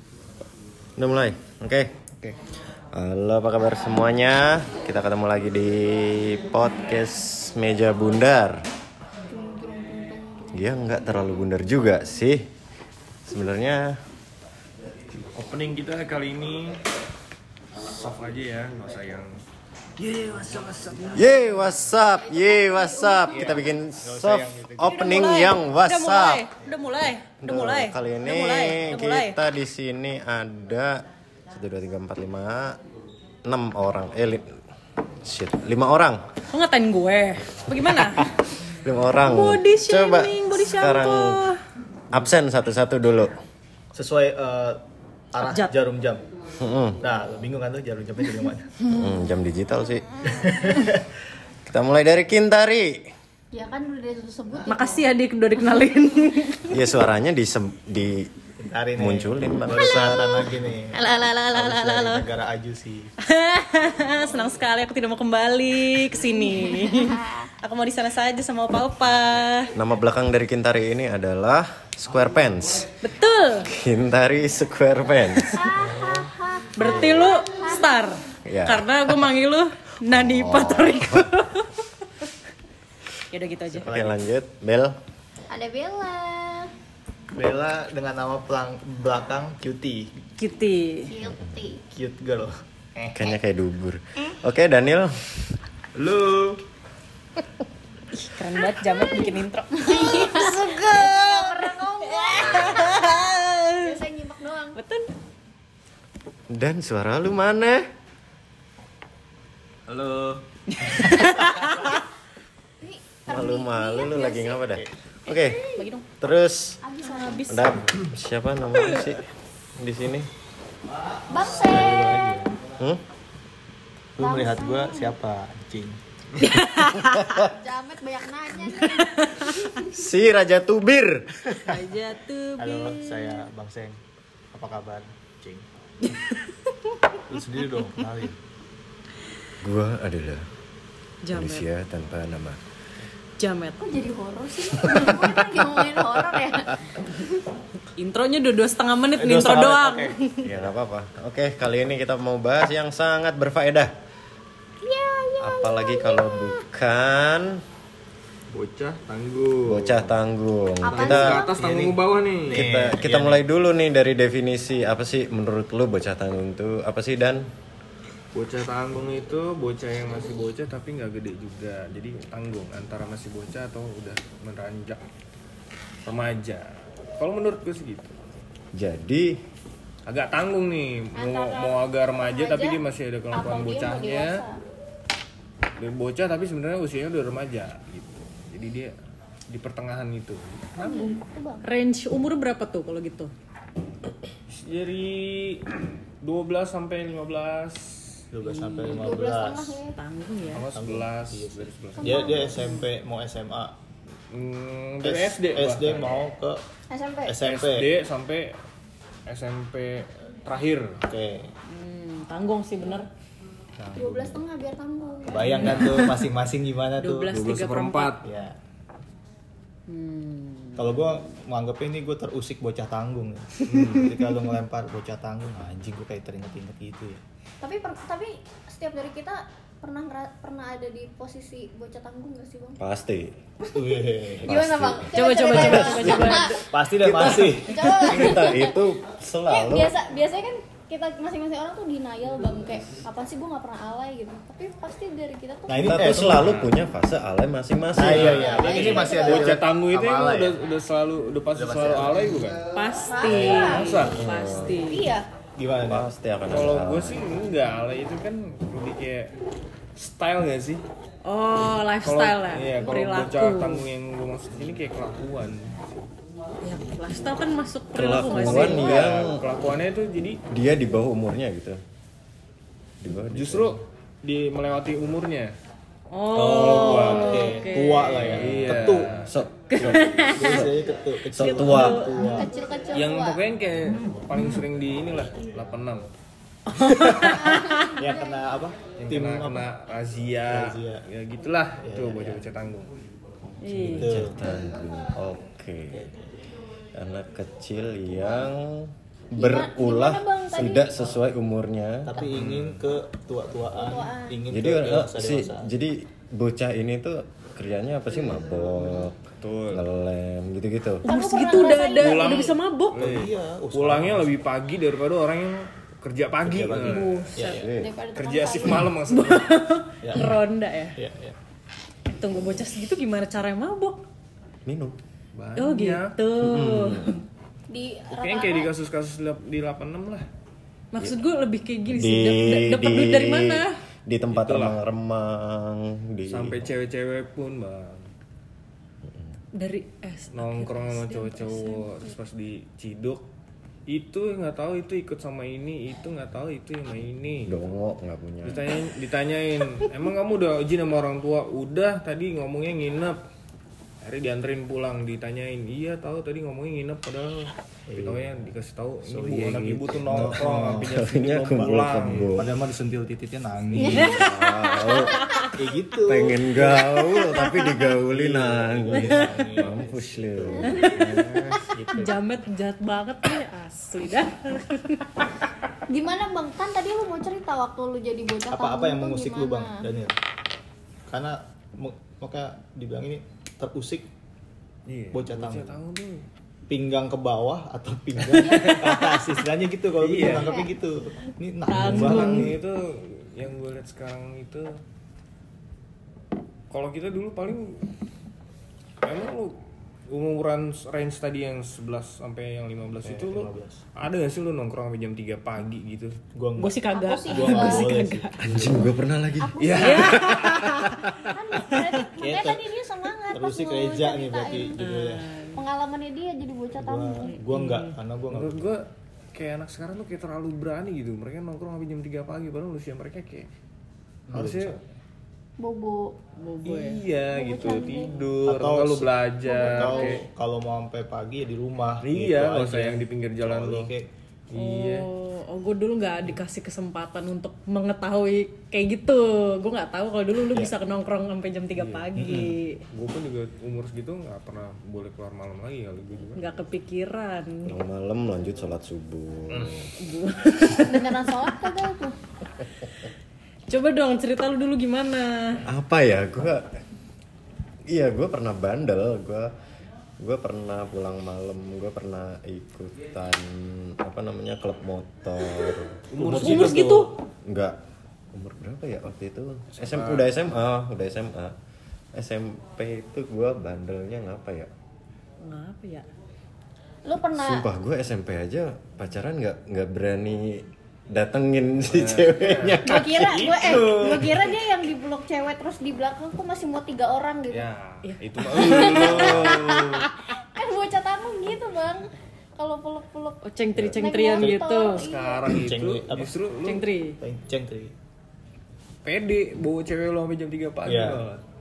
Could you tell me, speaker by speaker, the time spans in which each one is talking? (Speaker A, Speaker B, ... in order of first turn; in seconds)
Speaker A: 1.0-1.9, 2.9-8.6, 10.5-12.5, 13.3-14.0, 21.1-26.5, 27.4-32.8, 33.4-34.6, 35.2-36.2, 38.7-41.4, 42.1-43.4, 46.6-47.0, 48.9-50.1, 51.7-53.1, 56.7-58.3, 59.0-60.3, 69.7-73.0, 73.7-75.5, 78.5-79.3, 80.1-81.3, 83.8-85.0, 93.2-95.2, 106.5-107.9, 113.3-115.7, 116.2-116.8, 117.5-119.2, 119.8-120.3, 122.7-123.0, 127.0-127.5, 129.8-131.8, 139.6-140.5, 141.3-142.6, 150.4-153.9, 155.4-157.6, 159.7-161.5, 162.5-167.5, 178.7-179.4, 232.8-233.4, 234.4-236.4, 236.9-239.9, 245.8-248.8, 254.1-254.8, 255.8-257.2, 267.9-269.5, 270.5-271.8, 273.0-273.8, 278.3-282.1, 293.7-296.1, 296.9-302.6, 304.5-311.1, 317.5-317.9, 324.6-325.0, 326.4-327.2, 331.9-336.7, 339.1-339.3, 347.5-348.7, 360.1-362.5, 363.8-365.3, 366.1-370.9, 408.4-409.5, 447.6-449.9, 455.7-456.7, 457.9-459.5, 460.2-466.1, 467.4-467.8, 468.3-471.6, 472.1-474.7, 477.3-483.6
Speaker B: 9.3-10.9, 22.7-23.2, 53.5-55.1, 59.7-62.1, 66.6-67.4, 75.5-78.0, 85.5-86.7, 91.0-91.8, 99.0-104.8, 112.8-114.8, 115.3-115.9, 116.8-117.8, 121.3-122.5, 124.2-125.2, 127.4-129.9, 143.8-147.1, 154.8-156.6, 160.8-161.7, 181.2-182.8, 183.3-184.6, 190.8-191.7, 198.8-200.0, 202.0-202.8, 206.9-207.4, 213.9-215.7, 227.6-232.8, 234.4-236.7, 237.6-238.8, 239.5-246.2, 248.4-249.5, 253.1-254.0, 254.8-255.3, 282.1-283.5, 287.2-288.5, 299.4-301.0, 303.7-304.4, 311.0-312.4, 317.5-318.9, 327.7-328.7, 363.7-364.2, 365.1-365.5, 370.5-371.8, 375.9-379.9, 406.9-407.9, 409.4-410.5, 411.2-414.9, 415.5-417.4, 425.6-426.2, 427.3-428.3, 429.5-430.2, 450.7-452.2, 477.1-477.7, 482.8-487.7, 488.5-495.6
Speaker C: 15.2-16.8, 17.8-19.4, 20.0-21.4, 109.9-110.3, 158.5-160.1, 161.0-162.7, 168.3-175.0, 176.1-178.2, 180.1-184.4, 185.8-188.9, 189.5-190.8, 194.5-195.7, 196.2-198.2, 200.5-202.5, 204.3-206.2, 207.4-208.6, 209.3-211.0, 217.3-218.3, 223.7-224.1, 246.2-246.7, 248.1-252.6, 253.5-254.2, 256.5-259.3, 260.0-260.8, 262.0-266.1, 268.4-270.4, 273.3-275.6, 276.4-279.3, 282.9-286.1, 289.0-292.9, 302.2-302.8, 308.9-309.9, 311.9-317.3, 318.2-319.6, 325.3-326.2, 328.1-330.3, 334.3-334.8, 336.3-338.1, 340.3-343.2, 343.9-347.5, 348.4-353.2, 354.0-362.5, 370.9-371.6, 384.9-386.2, 388.2-389.3, 390.0-390.6, 391.8-394.8, 396.7-397.8, 399.0-406.2, 409.6-411.1, 418.3-423.5, 424.3-424.8, 426.7-430.3, 432.0-433.9, 434.5-435.1, 441.8-442.1, 442.9-446.5, 449.5-449.9, 466.1-467.1, 469.8-470.3, 481.9-484.5, 487.5-490.1, 494.9-496.9, 499.1-501.4
Speaker D: 23.3-25.2, 43.9-44.8, 45.3-46.2, 47.0-48.8, 50.3-51.0, 58.6-63.1, 75.8-77.3, 83.7-84.2, 87.3-90.1, 91.9-93.2, 96.0-96.6, 109.9-110.3, 121.4-122.6, 124.2-126.0, 132.6-134.0, 134.5-135.7, 137.3-138.4, 149.2-150.7, 161.5-163.4, 198.3-199.8, 200.7-203.8, 205.0-206.6, 207.2-207.9, 211.1-211.5, 213.8-214.4, 215.3-217.3, 218.2-218.6, 220.8-227.2, 233.8-235.0, 235.6-235.9, 236.7-237.8, 245.7-246.6, 247.9-250.6, 251.5-252.6, 255.6-256.1, 276.3-279.1, 279.8-282.5, 286.8-287.4, 288.0-289.7, 290.5-291.1, 291.8-292.4, 293.8-294.6, 295.9-296.3, 302.1-305.7, 313.0-314.3, 316.4-317.7, 320.0-320.4, 321.0-321.4, 357.9-358.4, 359.1-361.0, 361.8-364.2, 365.5-372.2, 378.5-380.2, 381.1-384.1, 385.1-385.8, 386.7-392.6, 403.0-403.8, 406.4-408.9, 412.2-412.7, 413.3-415.2, 416.8-418.8, 424.3-424.8, 428.4-434.1, 442.1-442.6, 466.2-466.8, 495.5-496.4, 497.2-497.9, 500.9-501.2
Speaker E: 24.9-29.4, 36.5-38.3, 39.2-41.6, 45.5-45.7, 54.7-56.8, 61.3-62.2, 63.2-69.7, 73.0-73.7, 76.8-81.7, 83.3-83.9, 90.4-91.1, 98.1-104.0, 104.8-105.1, 111.0-112.0, 115.7-116.0, 117.1-117.8, 126.4-127.4, 128.8-129.7, 131.7-133.4, 136.0-136.6, 141.2-141.7, 143.4-143.8, 148.0-150.4, 190.8-193.3, 198.4-199.1, 199.9-200.7, 211.7-213.1, 215.5-216.2, 217.0-218.2, 219.9-221.0, 235.2-236.7, 252.8-255.1, 261.2-263.9, 266.6-269.2, 276.1-278.4, 279.7-280.7, 281.4-282.5, 286.7-287.9, 293.6-294.1, 311.1-313.1, 316.9-317.6, 319.1-321.0, 322.1-324.0, 325.6-327.2, 330.9-333.8, 339.5-342.1, 364.1-365.5, 371.9-375.1, 391.7-392.6, 406.6-408.6, 409.8-411.2, 411.7-412.0, 414.8-415.6, 417.3-417.9, 426.4-427.0, 434.5-442.8, 446.4-447.7, 450.0-451.8, 453.7-455.6, 466.4-467.1, 475.4-476.1, 488.1-489.3, 493.4-495.0, 496.6-497.2